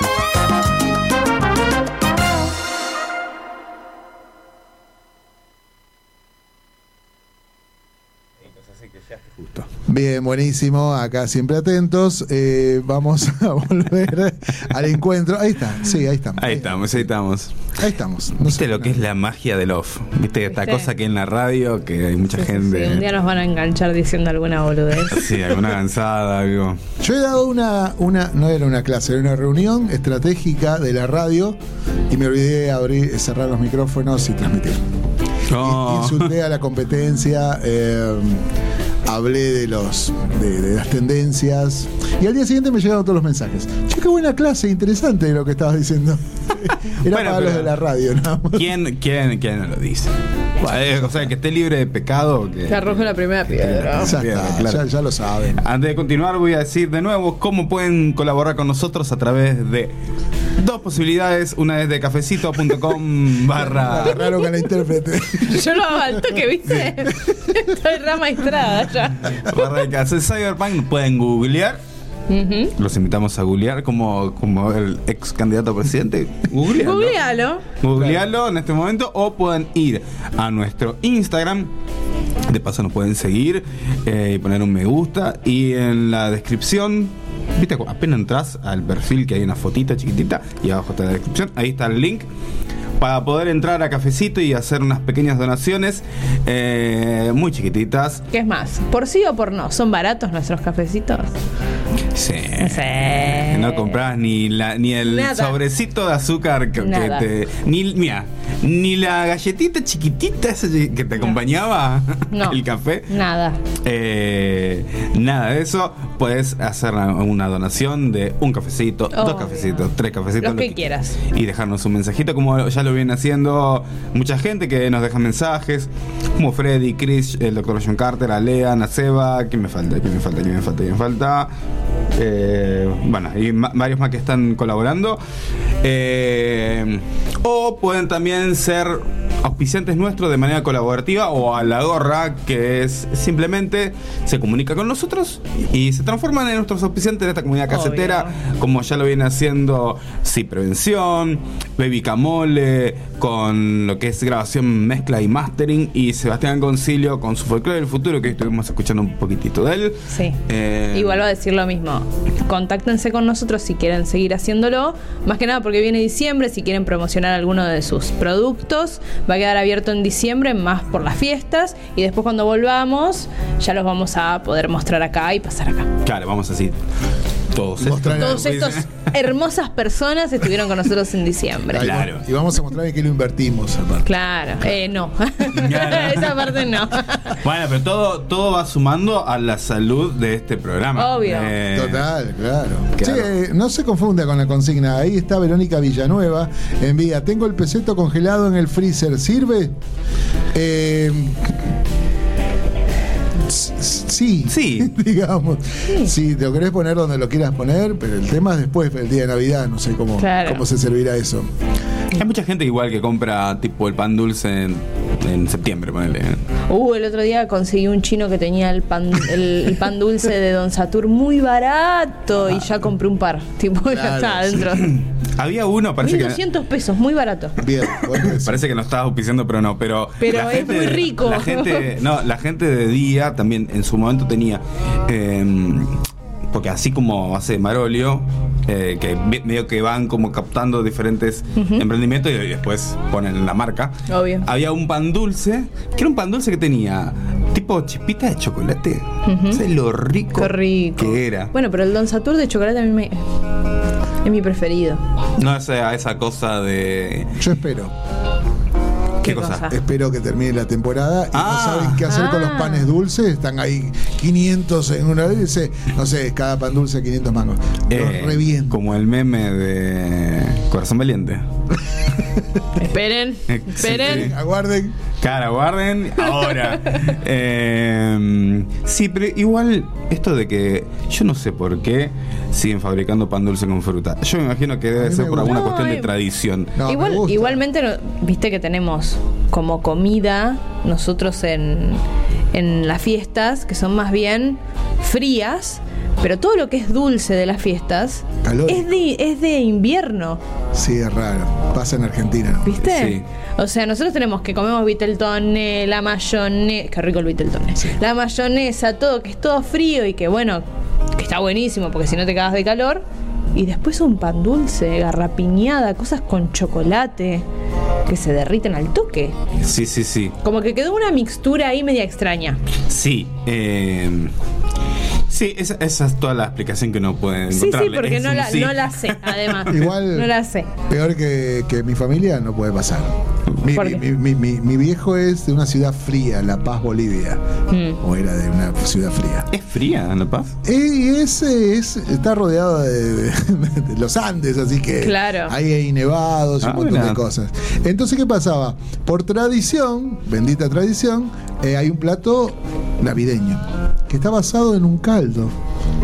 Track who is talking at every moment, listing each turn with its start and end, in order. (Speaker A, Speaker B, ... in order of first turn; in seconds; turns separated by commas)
Speaker A: 9.0-9.7, Speaker B: 9.9-17.1, Speaker A: 16.4-17.6, Speaker B: 17.8-19.0, Speaker A: 18.4-23.1, Speaker C: 20.5-20.9, Speaker C: 22.4-25.4, Speaker A: 25.1-26.8, Speaker B: 27.0-31.6, Speaker B: 32.1-34.8, Speaker A: 35.5-36.3, Speaker B: 35.5-38.5, Speaker B: 39.1-48.7, Speaker A: 47.0-47.7, Speaker A: 48.5-54.9, Speaker C: 52.7-54.1, Speaker B: 54.0-55.6, Speaker A: 55.6-59.9, Speaker A: 60.6-64.3, Speaker B: 63.5-66.2, Speaker C: 64.1-64.7, Speaker C: 65.4-69.6, Speaker A: 69.4-71.8, Speaker C: 72.3-72.7, Speaker A: 72.8-77.2, Speaker C: 76.7-77.6, Speaker A: 77.8-81.7, Speaker A: 82.5-92.3, Speaker A: 93.0-98.2, Speaker C: 98.3-101.3, Speaker A: 102.1-113.1, Speaker C: 102.6-103.9, Speaker C: 105.0-105.6, Speaker C: 106.8-107.3, Speaker C: 112.3-113.6, Speaker A: 113.8-131.5, Speaker C: 119.1-119.9, Speaker C: 120.4-121.2, Speaker A: 132.2-135.2, Speaker A: 135.8-161.2, Speaker C: 147.7-148.3, Speaker C: 160.1-160.4, Speaker C: 160.9-175.9, Speaker A: 176.0-176.8, Speaker A: 177.5-178.9, Speaker B: 177.8-178.6, Speaker C: 178.2-181.9, Speaker B: 181.7-184.1, Speaker A: 181.8-182.2, Speaker C: 184.1-187.4, Speaker A: 185.5-186.7, Speaker A: 187.4-192.1, Speaker C: 191.0-191.5, Speaker B: 191.7-199.8, Speaker A: 193.0-193.3, Speaker B: 200.5-201.6, Speaker B: 203.4-211.5, Speaker A: 204.5-204.9, Speaker C: 210.2-210.6, Speaker A: 212.1-216.4, Speaker C: 216.7-225.0, Speaker B: 223.9-224.6, Speaker A: 224.6-226.4, Speaker C: 226.0-227.6, Speaker B: 227.6-228.6, Speaker A: 228.2-236.0, Speaker C: 230.2-231.9, Speaker A: 236.5-251.5, Speaker C: 241.6-241.8, Speaker C: 244.1-244.4, Speaker C: 249.3-249.6, Speaker C: 250.4-253.2, Speaker C: 254.2-255.0, Speaker A: 255.4-257.3, Speaker B: 257.4-257.9, Speaker C: 259.2-259.8, Speaker A: 259.2-259.7, Speaker B: 259.6-268.8, Speaker A: 261.3-262.1, Speaker C: 262.1-262.9, Speaker A: 267.9-271.5, Speaker C: 272.8-274.3, Speaker A: 273.5-274.3, Speaker B: 273.8-274.9, Speaker A: 275.2-286.8, Speaker B: 284.9-285.6, Speaker C: 285.4-286.1, Speaker B: 286.8-287.6, Speaker C: 286.9-292.0, Speaker C: 292.5-300.4, Speaker B: 298.4-298.9, Speaker B: 300.7-302.9, Speaker C: 302.6-310.6, Speaker A: 302.8-303.2, Speaker C: 311.1-313.0, Speaker C: 313.6-317.4, Speaker C: 318.1-319.4, Speaker A: 319.6-320.4, Speaker C: 320.4-322.6, Speaker A: 322.9-324.3, Speaker A: 325.3-329.9, Speaker C: 327.5-330.7, Speaker B: 329.7-337.4, Speaker C: 333.7-334.0, Speaker C: 337.7-338.0, Speaker B: 338.0-339.5, Speaker A: 339.5-340.5, Speaker B: 340.6-355.5, Speaker C: 345.0-345.5, Speaker A: 346.6-347.2